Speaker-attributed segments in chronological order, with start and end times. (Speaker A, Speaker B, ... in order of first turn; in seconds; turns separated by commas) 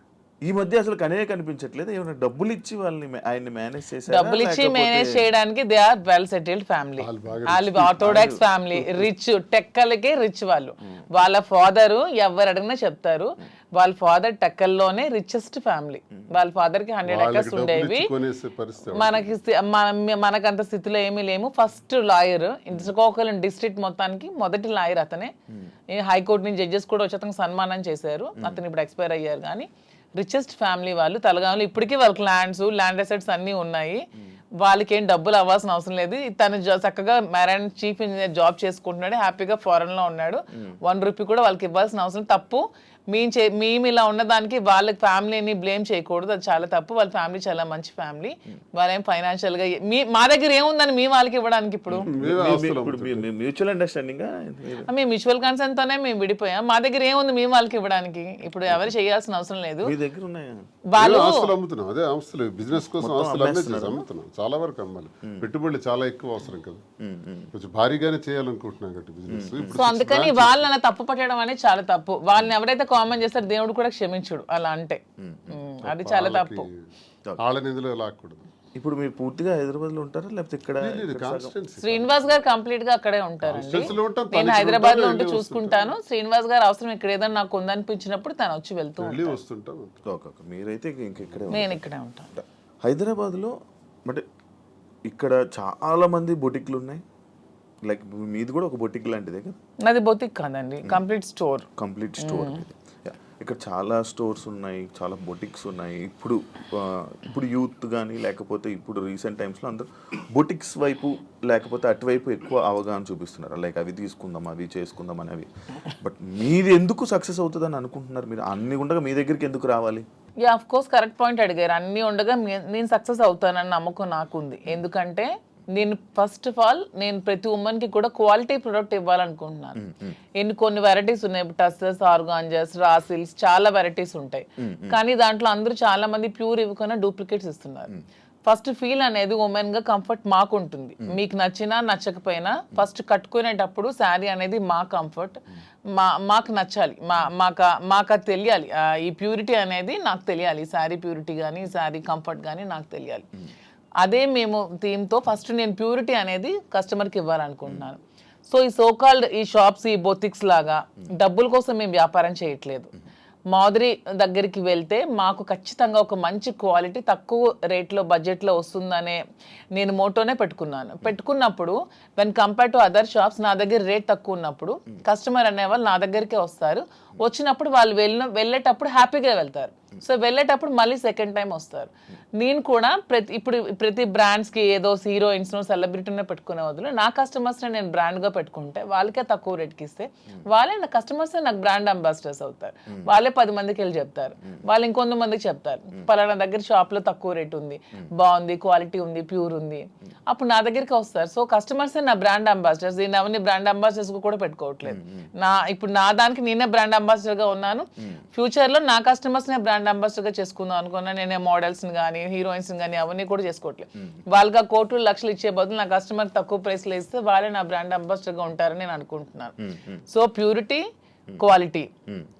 Speaker A: 0.5-5.3, Speaker B: 4.1-18.1, Speaker C: 7.0-8.3, Speaker A: 8.0-8.4, Speaker C: 17.1-19.4, Speaker B: 18.9-25.3, Speaker B: 25.9-34.0, Speaker B: 34.6-52.1, Speaker A: 51.9-54.9, Speaker C: 52.1-53.3, Speaker B: 54.9-59.9, Speaker A: 59.8-60.6, Speaker B: 60.9-61.5, Speaker C: 61.0-66.8, Speaker A: 63.0-64.0, Speaker A: 67.0-67.5, Speaker C: 67.5-70.6, Speaker A: 69.3-69.8, Speaker B: 69.8-76.7, Speaker A: 75.2-75.6, Speaker C: 75.8-76.9, Speaker C: 77.4-78.5, Speaker A: 78.8-81.5, Speaker C: 80.8-82.3, Speaker B: 81.8-89.4, Speaker C: 83.4-86.0, Speaker A: 83.6-84.0, Speaker C: 89.0-90.0, Speaker A: 90.1-93.5, Speaker B: 91.5-92.3, Speaker A: 95.1-97.0, Speaker A: 97.8-99.6, Speaker B: 99.8-101.7, Speaker A: 101.8-120.1, Speaker B: 102.2-102.6, Speaker B: 120.4-129.8, Speaker A: 129.8-130.2, Speaker B: 130.4-137.9, Speaker A: 134.6-135.0, Speaker B: 138.5-145.4, Speaker B: 145.9-153.3, Speaker B: 154.0-162.9, Speaker B: 163.5-169.2, Speaker B: 169.8-219.5, Speaker A: 204.8-205.3, Speaker A: 219.6-220.0, Speaker B: 220.1-220.8, Speaker B: 221.4-221.9